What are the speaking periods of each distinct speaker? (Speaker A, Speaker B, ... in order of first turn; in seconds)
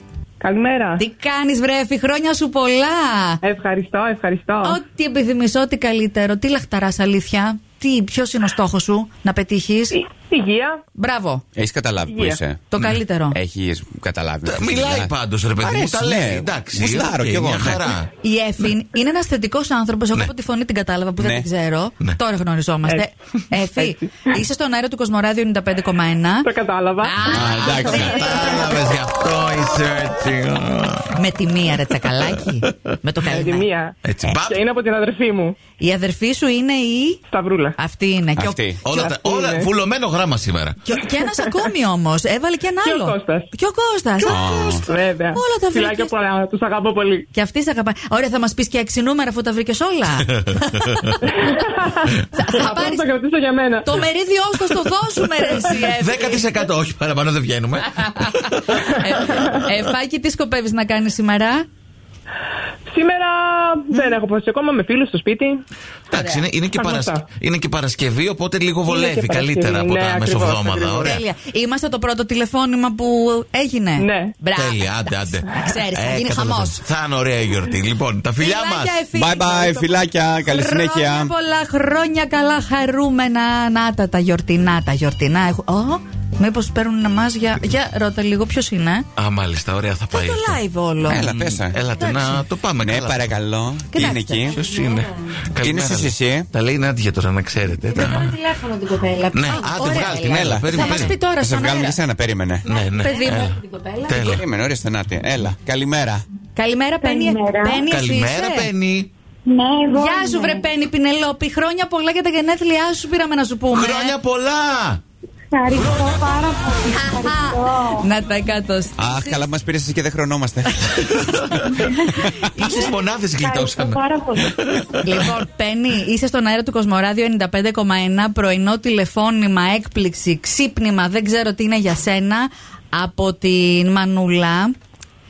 Speaker A: 0.4-1.0, 3.4-4.8, 9.9-10.8, 12.1-12.4, 23.6-24.4, 26.4-27.3, 33.3-35.6, 37.3-37.8, 38.9-39.7, 42.8-43.5, 44.9-47.3, 51.3-54.0, 62.9-65.6, 66.7-67.2, 68.8-71.1, 74.0-74.3
Speaker B: 1.0-3.4, 4.6-10.0, 11.0-11.4, 12.7-13.4, 18.2-26.5, 27.0-28.8, 31.2-33.7, 35.8-37.2, 37.8-38.6, 40.8-44.8, 45.3-46.1, 47.3-51.6, 52.3-53.1, 53.8-56.5, 58.0-61.6, 66.1-66.4, 71.0-76.8, 78.4-79.9, 80.5-89.0, 90.1-91.3, 92.0-92.4, 93.9-95.2, 97.9-102.0, 102.7-104.3, 106.5-108.7, 109.9-114.2, 117.0-119.5, 121.6-122.8, 125.0-134.7
Speaker C: 11.6-12.7, 13.3-17.9, 21.2-21.5, 27.3-28.2, 38.4-38.8, 44.3-44.8, 79.1-81.3, 91.0-91.8, 92.8-94.6, 95.6-96.5, 100.2-102.7, 104.1-106.2, 119.0-121.0, 122.2-122.5
Speaker D: 14.4-18.1, 27.6-31.1, 34.0-34.7, 38.8-40.8, 44.2-44.9, 50.8-51.1, 55.9-58.9, 66.1-71.2, 74.5-79.0, 89.2-93.4, 94.0-98.4, 99.3-101.2, 102.6-104.4, 107.8-109.1, 113.7-115.0, 121.0-125.3
Speaker E: 107.0-107.8, 109.5-110.6, 115.5-118.1, 122.6-124.5